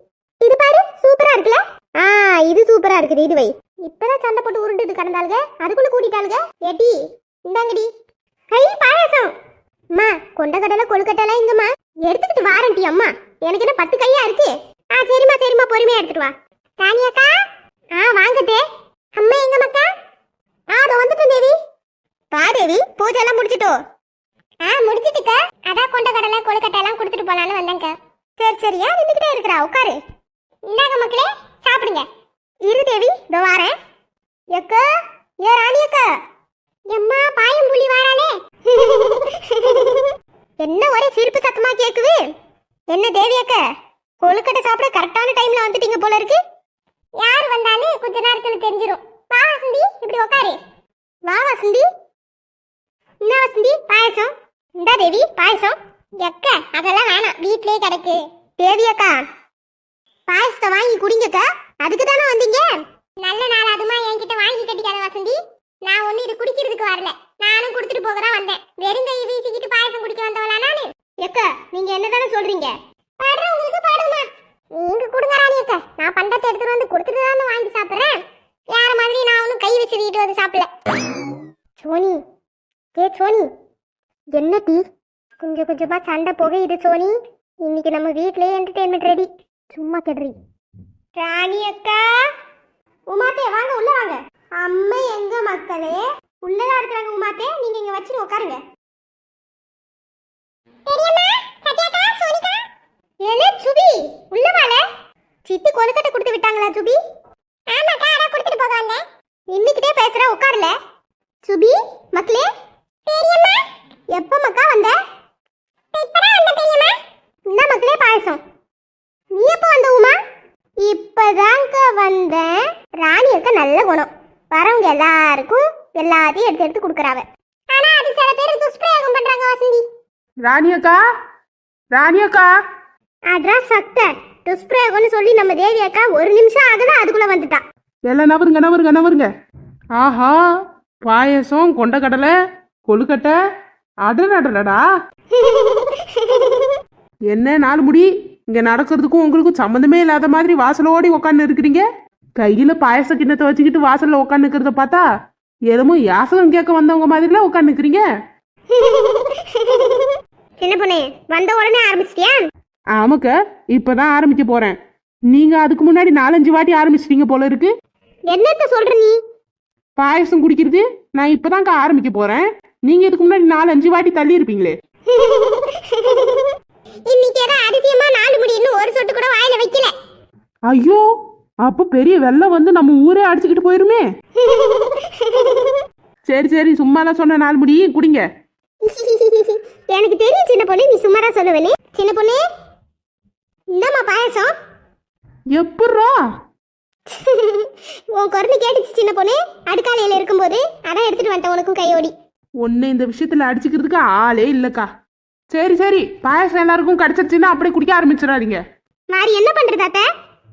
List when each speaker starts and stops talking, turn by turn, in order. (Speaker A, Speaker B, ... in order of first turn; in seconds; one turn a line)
Speaker A: 0.4-7.9
Speaker A: 8.5-9.3
Speaker A: 9.9-17.4
Speaker A: 17.9-18.6
Speaker A: 19.2-19.9
Speaker A: 20.7-21.6
Speaker A: 22.3-23.8
Speaker A: 24.6-30.0
Speaker A: 30.7-32.1
Speaker A: 32.7-33.7
Speaker A: 34.5-34.9
Speaker A: 35.4-36.1
Speaker A: 36.9-42.3
Speaker A: 42.9-43.6
Speaker A: 44.2-46.4
Speaker A: 47.2-50.6
Speaker A: 51.3-51.9
Speaker A: 53.2-59.3
Speaker A: 60.3-80.7
Speaker A: 81.8-82.2
Speaker A: 83.0-83.5
Speaker A: 84.3-84.8
Speaker A: 85.4-90.4
Speaker A: 91.2-92.2
Speaker A: 93.1-98.6
Speaker A: 100.9-102.6
Speaker A: 103.2-104.8
Speaker A: 105.5-107.0
Speaker A: 107.7-110.8
Speaker A: 111.4-112.5
Speaker A: 113.1-115.0
Speaker A: 115.9-116.9
Speaker A: 117.5-118.4
Speaker A: 119.3-120.2
Speaker A: 120.8-129.8
Speaker B: 130.4-131.0
Speaker B: 131.9-132.5
Speaker A: 133.3-137.6
Speaker B: 138.1-139.3
Speaker B: 140.0-140.4
Speaker B: 141.1-142.3
Speaker B: 142.9-143.3
Speaker B: 144.0-144.8
Speaker A: 145.3-146.8
Speaker B: 147.3-151.9
Speaker B: 152.4-155.1
Speaker B: 155.7-158.0
Speaker A: 158.7-162.4
Speaker B: 162.9-164.8
Speaker B: 165.3-167.7
Speaker A: 168.3-169.2
Speaker B: 170.0-174.8
Speaker A: 175.1-176.6
Speaker A: 177.1-179.9
Speaker B: 180.7-181.0
Speaker B: 181.6-184.0
Speaker A: 184.4-185.8
Speaker B: 186.3-188.2
Speaker A: 188.8-192.4
Speaker A: 193.8-194.5
Speaker B: 195.5-196.2
Speaker A: 197.1-202.1
Speaker B: 202.6-204.9
Speaker B: 205.5-208.6
Speaker A: 209.1-210.1